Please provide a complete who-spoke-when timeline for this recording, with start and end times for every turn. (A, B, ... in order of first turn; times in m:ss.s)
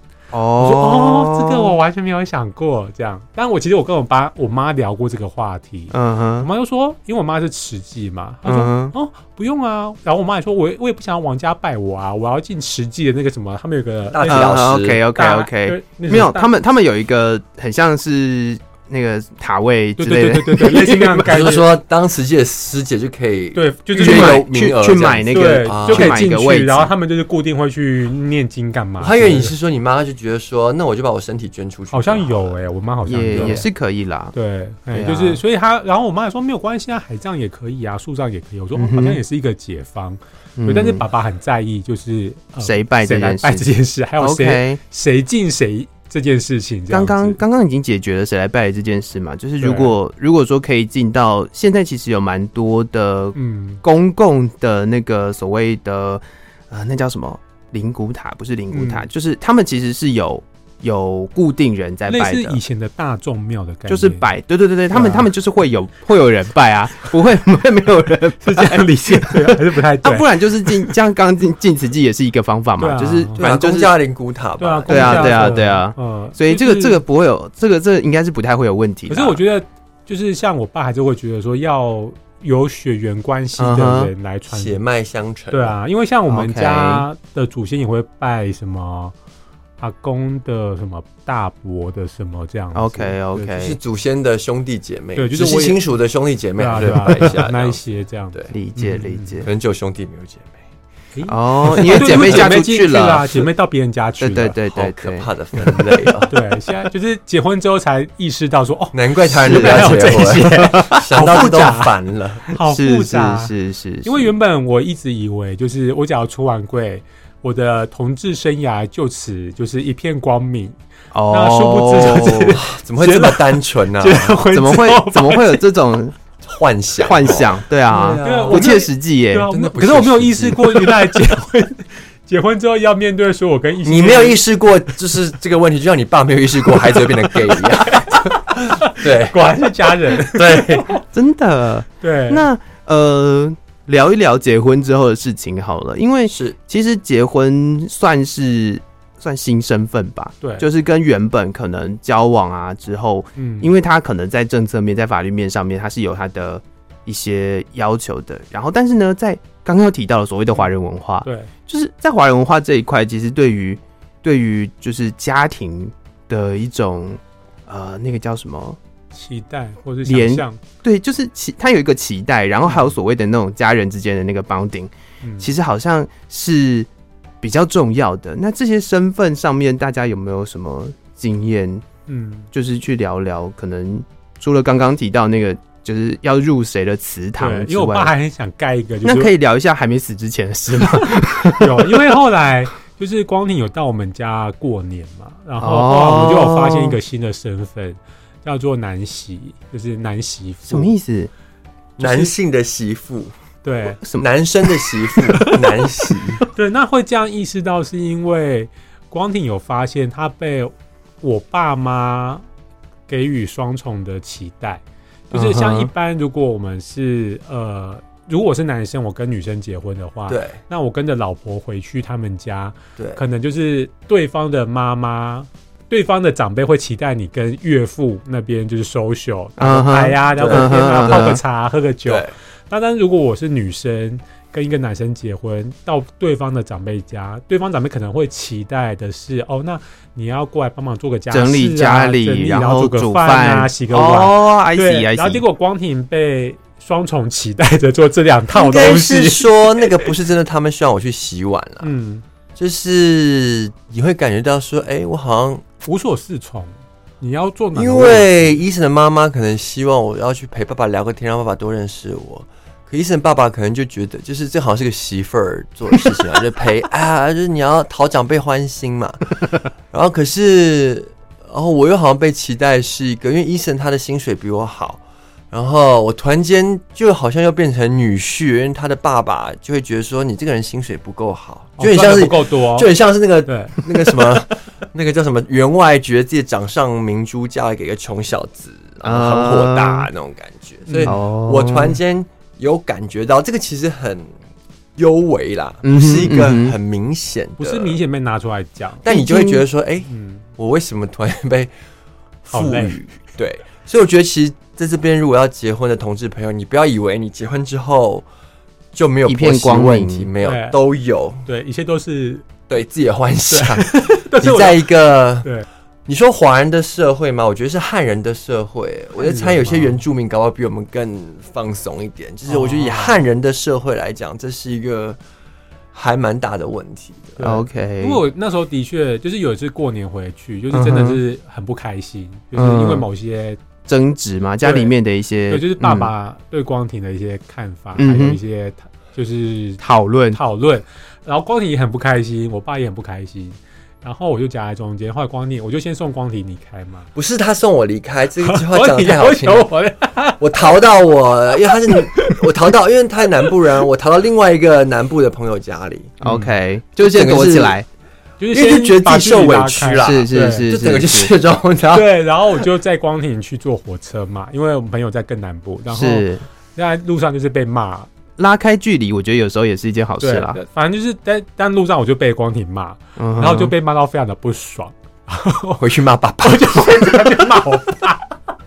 0:00.3-0:01.8 A
0:00.6-0:16.5 B
0:05.9-0:06.5 A
0:08.5-0:08.9 A
0:14.1-0:15.0 C
0:14.3-0:21.4 A
0:20.0-0:21.7 B
0:21.2-0:26.2 C
0:23.6-0:24.4 B
0:23.9-0:26.9 A
0:25.3-0:29.5 B
0:29.0-0:32.6 C
0:31.9-0:33.7 B
0:33.1-0:34.3 A
0:33.3-0:33.6 C
0:34.3-0:47.4 B
0:34.9-0:35.4 A
0:38.8-0:39.2 A
0:40.6-0:41.0 A
0:42.6-0:44.8 A
0:46.9-1:02.6 A
0:49.6-0:49.9 B
0:53.4-0:53.8 B
0:58.7-0:59.1 B
1:02.1-1:04.3 B
1:03.9-1:13.9 A
1:04.9-1:05.3 B
1:08.4-1:10.9 B
1:12.8-1:13.4 B
1:13.4-1:15.6 C
1:14.6-1:17.0 B
1:14.9-1:19.4 A
1:19.1-1:24.8 B
1:23.6-1:24.1 A
1:24.5-1:25.8 C
1:25.5-1:29.1 B
1:26.3-1:27.0 A
1:29.8-1:33.5 B
1:32.7-1:33.8 A
1:33.5-1:37.8 C
1:35.2-1:35.8 B
1:36.6-1:39.4 B
1:38.5-1:39.5 A
1:39.4-1:40.6 C
1:41.2-1:44.6 B
1:41.3-1:43.5 A
1:41.8-1:42.5 C
1:44.2-1:45.3 A
1:44.7-1:46.4 C
1:45.6-1:51.9 B
1:48.9-1:52.5 C
1:49.4-1:51.0 A
1:52.5-1:53.5 B
1:52.6-1:54.3 A
1:54.0-2:00.8 B
2:01.1-2:02.6 A
2:01.3-2:05.6 B
2:02.5-2:04.4 C
2:04.5-2:06.2 A
2:06.5-2:08.8 C
2:07.0-2:09.5 A
2:08.2-2:14.4 B
2:09.5-2:11.2 C
2:13.8-2:18.2 C
2:17.5-2:21.0 B
2:18.8-2:20.9 C
2:21.1-2:48.8 A
2:22.0-2:22.5 B
2:26.3-2:26.6 C
2:33.4-2:33.7 B
2:41.2-2:41.5 B
2:49.1-2:50.6 B
2:50.0-2:56.9 A
2:55.2-2:55.5 B
2:57.4-3:01.8 A
3:02.1-3:02.5 B
3:02.5-3:08.1 A
3:07.4-3:09.3 B
3:09.0-3:12.0 A
3:11.5-3:20.9 B
3:15.6-3:17.0 A
3:20.7-3:21.3 A
3:22.0-3:23.3 C
3:22.0-3:22.3 B
3:23.6-3:24.0 B
3:24.2-3:26.4 C
3:25.4-3:25.7 B
3:26.5-3:32.4 B
3:33.1-4:10.1 B
3:35.3-3:35.9 A
3:40.3-3:40.6 C
3:49.6-3:51.4 A
3:50.4-3:51.4 C
3:52.1-3:52.3 C
4:01.3-4:05.4 A
4:08.5-4:11.9 C
4:11.8-4:12.2 B
4:12.6-4:15.6 C
4:15.8-4:18.6 B
4:17.7-4:54.3 C
4:41.8-4:42.9 B
4:43.4-4:44.4 B
4:49.0-4:50.1 A
4:50.9-4:51.1 B
4:51.0-4:52.0 A
4:55.0-4:58.0 C
4:55.8-4:56.8 A
4:57.6-4:59.0 B
4:59.0-5:01.7 C
4:59.1-4:59.6 A
5:00.1-5:00.4 B
5:02.4-5:08.2 C
5:02.5-5:03.0 B
5:08.9-5:11.4 C
5:09.3-5:10.3 A
5:10.4-5:10.8 B
5:11.4-5:12.5 B
5:12.7-5:15.5 C
5:13.5-5:14.9 B
5:16.1-5:25.2 C
5:19.2-5:20.0 B
5:22.5-5:23.2 B
5:25.9-5:27.4 C
5:27.4-5:33.6 B
5:27.4-5:28.2 A
5:30.7-5:31.2 A
5:32.6-5:33.1 A
5:33.9-5:36.1 A
5:34.6-5:34.9 B
5:35.5-5:39.8 B
5:38.0-5:38.4 A
5:39.8-5:40.4 A
5:40.3-5:47.1 B
5:47.1-5:49.7 C
5:48.4-5:50.7 B
5:50.4-5:56.2 C
5:51.9-5:52.4 B
5:56.2-5:57.9 A
5:56.2-5:56.5 B
5:57.0-5:57.8 C
5:58.4-6:00.7 B
5:58.5-6:02.1 C
6:00.0-6:01.3 A
6:01.9-6:08.1 B
6:05.9-6:06.4 A
6:08.4-6:10.6 A
6:10.2-6:15.8 B
6:13.2-6:13.7 A
6:15.8-6:17.3 C
6:16.4-6:18.3 B